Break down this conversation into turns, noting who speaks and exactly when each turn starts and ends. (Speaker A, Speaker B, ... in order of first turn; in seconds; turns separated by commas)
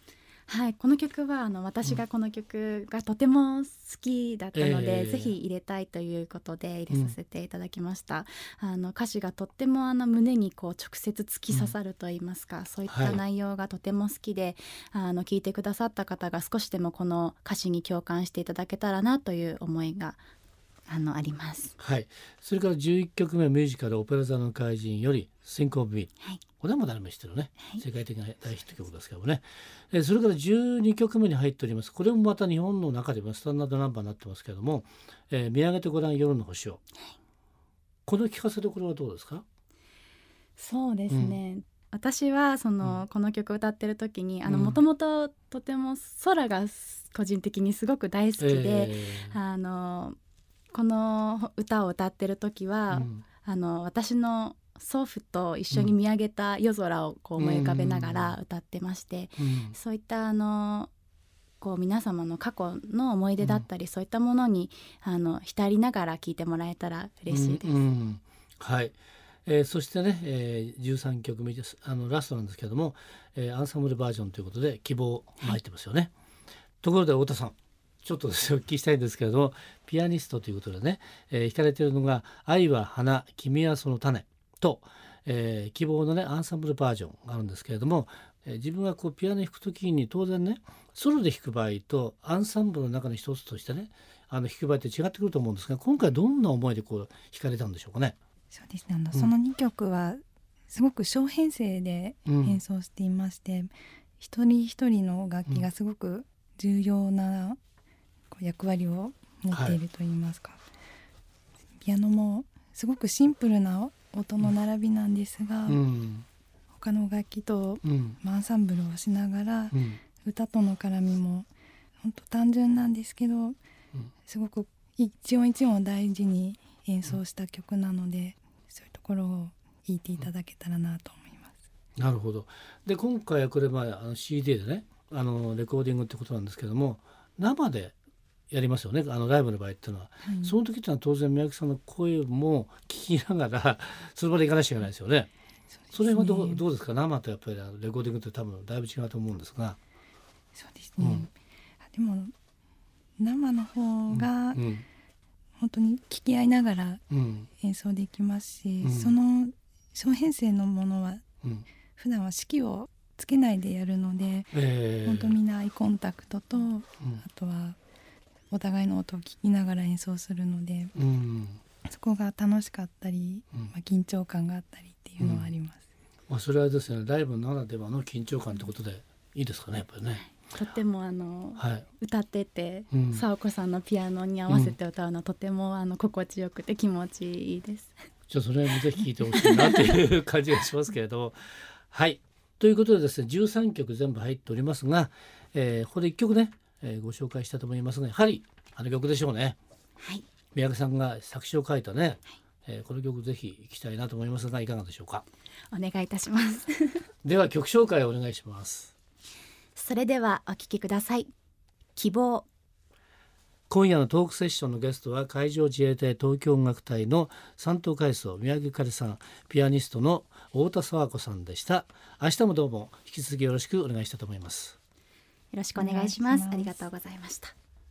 Speaker A: 0.5-20.2, Speaker B: 4.5-5.3, Speaker B: 6.9-7.1, Speaker B: 12.9-13.2, Speaker A: 20.9-21.7, Speaker B: 21.8-36.8, Speaker B: 38.0-39.4, Speaker A: 40.6-50.1, Speaker B: 41.1-41.4, Speaker B: 44.4-44.8, Speaker B: 48.4-49.4, Speaker A: 50.7-60.9, Speaker B: 52.9-53.2, Speaker B: 57.4-58.4, Speaker B: 59.4-59.8, Speaker A: 61.6-67.8, Speaker B: 67.3-76.1, Speaker B: 76.8-98.2, Speaker C: 98.5-107.6, Speaker B: 102.2-102.6, Speaker C: 108.3-110.6, Speaker B: 109.5-109.8, Speaker C: 111.8-115.8, Speaker B: 115.7-116.2, Speaker C: 116.7-121.5, Speaker B: 117.8-118.2, Speaker B: 119.7-120.0, Speaker C: 122.0-123.6, Speaker C: 124.3-131.5, Speaker B: 132.0-137.9, Speaker B: 138.5-145.3, Speaker C: 140.2-140.6, Speaker C: 145.8-146.6, Speaker B: 145.9-149.8, Speaker C: 150.5-151.3, Speaker B: 151.0-151.3, Speaker C: 151.9-152.3, Speaker C: 153.2-154.6, Speaker B: 154.1-154.8, Speaker C: 155.6-157.0, Speaker B: 157.1-157.5, Speaker C: 157.6-161.2, Speaker B: 158.8-159.2, Speaker C: 162.0-167.8, Speaker B: 164.5-165.4, Speaker C: 168.5-170.9, Speaker B: 170.9-171.6, Speaker C: 171.8-175.8, Speaker B: 175.2-175.5, Speaker B: 176.3-180.2, Speaker A: 180.5-187.9, Speaker B: 181.6-181.8, Speaker B: 182.9-183.2, Speaker B: 184.5-184.8, Speaker B: 188.3-199.6, Speaker A: 189.2-189.8, Speaker B: 200.5-205.2, Speaker A: 205.7-207.1, Speaker B: 207.2-208.9, Speaker A: 209.8-211.3, Speaker A: 211.9-212.5, Speaker B: 213.7-224.8, Speaker A: 225.5-227.5, Speaker C: 225.7-226.8